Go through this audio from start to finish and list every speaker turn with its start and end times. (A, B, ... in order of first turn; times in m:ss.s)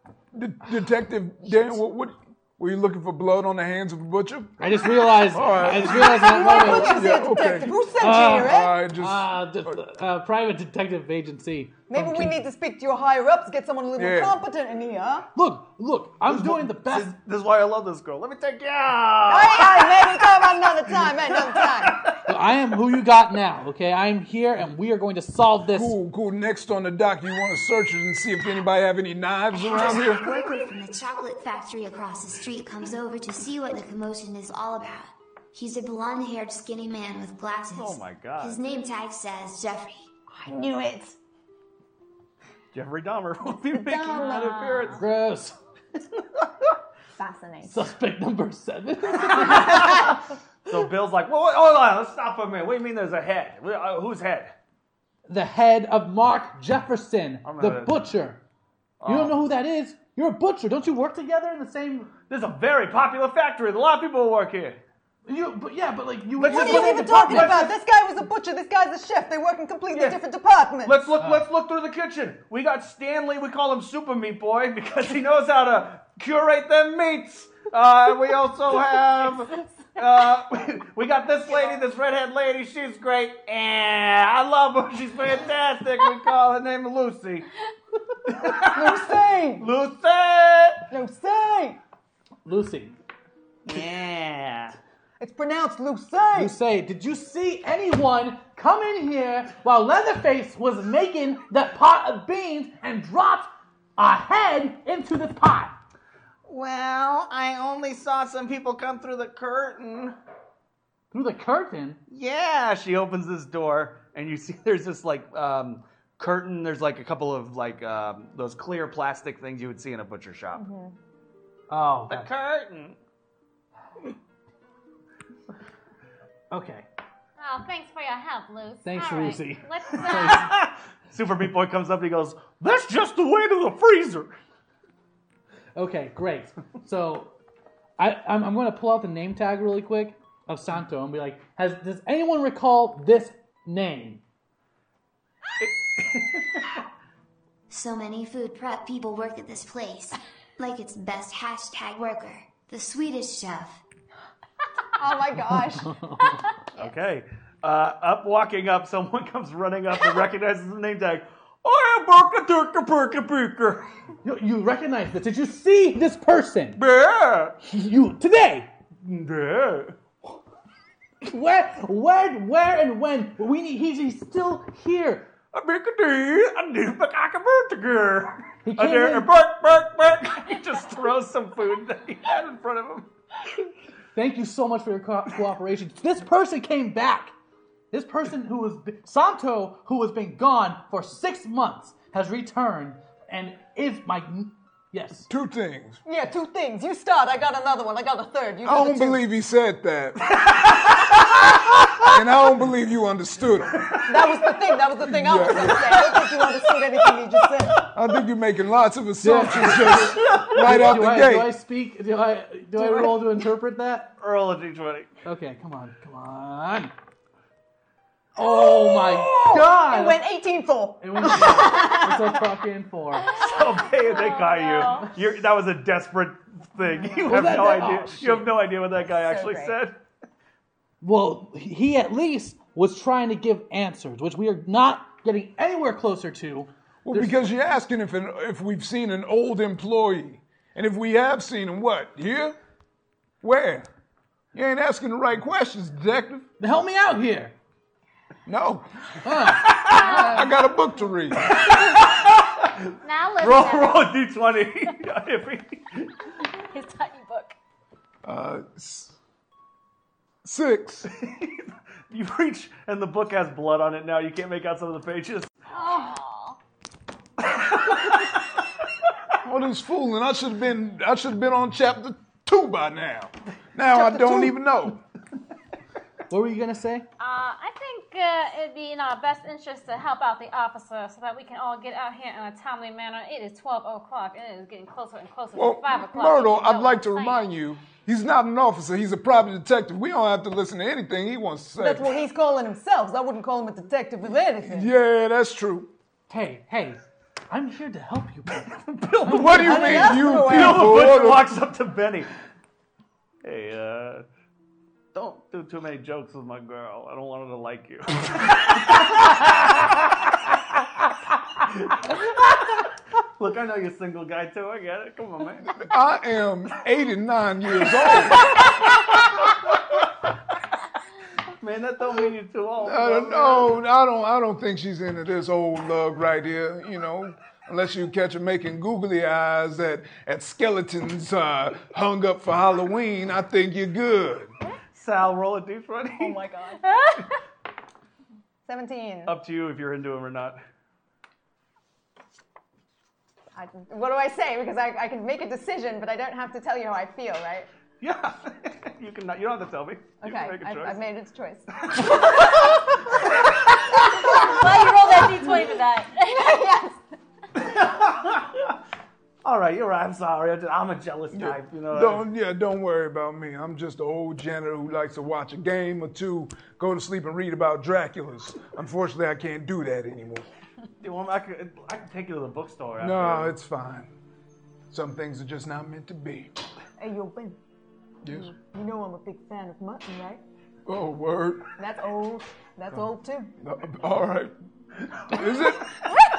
0:00.3-0:09.8 A
0:04.6-0:07.2 B
0:05.7-0:08.8 C
0:08.0-0:12.4 B
0:11.9-0:15.3 C
0:14.0-0:14.4 A
0:15.4-0:17.1 B
0:16.3-0:22.2 D
0:19.3-0:22.2 C
0:22.3-0:26.0 B
0:25.7-0:30.4 A
0:29.5-0:40.1 E
0:37.7-0:38.6 D
0:40.3-0:41.2 C
0:42.7-0:45.0 D
0:43.7-0:44.7 C
0:44.1-0:45.0 F
0:45.0-0:45.6 B
0:47.2-0:47.8 C
0:47.6-0:50.2 B
0:49.3-0:50.1 D
0:50.7-0:54.5 D
0:55.3-0:58.4 B
0:57.4-0:58.0 D
0:59.0-0:59.4 D
0:59.0-1:02.1 B
1:02.3-1:04.8 D
1:05.3-1:07.7 B
1:06.4-1:07.7 D
1:06.5-1:11.1 C
1:09.9-1:10.2 D
1:10.8-1:27.5 D
1:11.2-1:11.5 B
1:28.2-1:30.9 D
1:28.7-1:29.7 C
1:30.9-1:31.8 C
1:32.4-1:33.0 B
1:33.7-1:34.8 D
1:35.2-1:36.5 C
1:36.4-1:45.8 B
1:46.5-1:50.2 D
1:51.1-1:52.0 B
1:52.1-2:00.6 D
2:00.5-2:01.0 C
2:01.7-2:02.3 B
2:02.1-2:03.0 D
2:06.5-2:06.9 B
2:07.4-2:10.5 F
2:08.8-2:10.5 B
2:10.1-2:14.4 D
2:15.8-2:17.4 B
2:18.0-2:24.2 B
2:25.6-2:26.8 D
2:27.7-2:33.8 E
2:35.0-2:36.0 C
2:35.5-2:36.5 B
2:36.8-2:43.8 D
2:44.2-2:46.8 B
2:46.8-2:47.6 D
2:47.7-2:48.7 B
2:49.0-2:50.0 D
2:51.2-2:55.3 B
2:55.5-3:03.1 D
2:58.6-2:59.3 B
3:04.2-3:07.3 B
3:07.9-3:15.3 B
3:15.3-3:16.0 A
3:16.0-3:19.2 C
3:18.6-3:20.6 A
3:22.0-3:23.9 A
3:23.9-3:24.4 D
3:24.1-3:27.9 C
3:25.1-3:26.0 A
3:25.9-3:26.2 D
3:27.9-3:31.6 A
3:29.2-3:34.1 B
3:29.9-3:30.5 D
3:34.2-3:35.1 D
3:35.2-3:36.9 B
3:38.4-3:40.3 B
3:38.4-3:42.1 C
3:41.0-3:43.3 B
3:43.2-3:45.1 F
3:43.3-3:50.0 D
3:46.8-3:47.6 C
3:47.3-3:48.5 B
3:49.1-3:49.8 C
3:51.0-3:57.5 B
3:57.0-4:02.6 A
4:03.4-4:03.9 A
4:04.5-4:06.5 A
4:06.6-4:07.6 B
4:08.5-4:11.6 A
4:09.2-4:10.4 B
4:09.8-4:10.6 F
4:11.4-4:16.2 D
4:13.0-4:14.2 F
4:16.5-4:17.6 F
4:18.2-4:19.2 A
4:20.4-4:21.1 A
4:21.1-4:25.5 D
4:25.7-4:26.6 F
4:27.4-4:28.5 D
4:29.4-4:35.0 A
4:33.9-4:34.5 C
4:36.3-4:37.1 B
4:37.2-4:47.4 F
4:45.6-4:52.2 A
4:51.8-4:54.9 C
4:54.6-4:55.9 A
4:56.3-4:59.6 B
4:58.9-5:02.3 D
4:59.2-5:01.6 A
4:59.5-5:01.1 C
5:03.4-5:04.2 D
5:05.1-5:10.0 D
5:11.6-5:12.8 D
5:13.4-5:15.8 D
5:15.7-5:18.6 A
5:21.6-5:23.8 D
5:22.8-5:34.5 A
5:34.9-5:36.4 D
5:36.2-5:36.8 C
5:36.8-5:37.3 F
5:38.7-5:39.4 C
5:39.3-5:40.6 D
5:43.5-5:47.7 C
5:48.0-5:51.0 D
5:50.2-5:52.7 C
5:51.9-5:52.2 D
5:54.1-5:55.7 C
5:54.2-5:56.5 F
5:56.2-5:57.0 C
5:57.6-5:58.7 D
5:59.4-6:02.3 D
6:01.3-6:10.5 A
6:11.0-6:13.5 D
6:13.0-6:14.1 A
6:14.9-6:16.5 A
6:17.0-6:17.6 C
6:18.2-6:18.5 A
6:18.7-6:20.4 C
6:20.9-6:21.7 A
6:21.8-6:23.5 C
6:23.6-6:24.5 A
6:25.2-6:25.9 A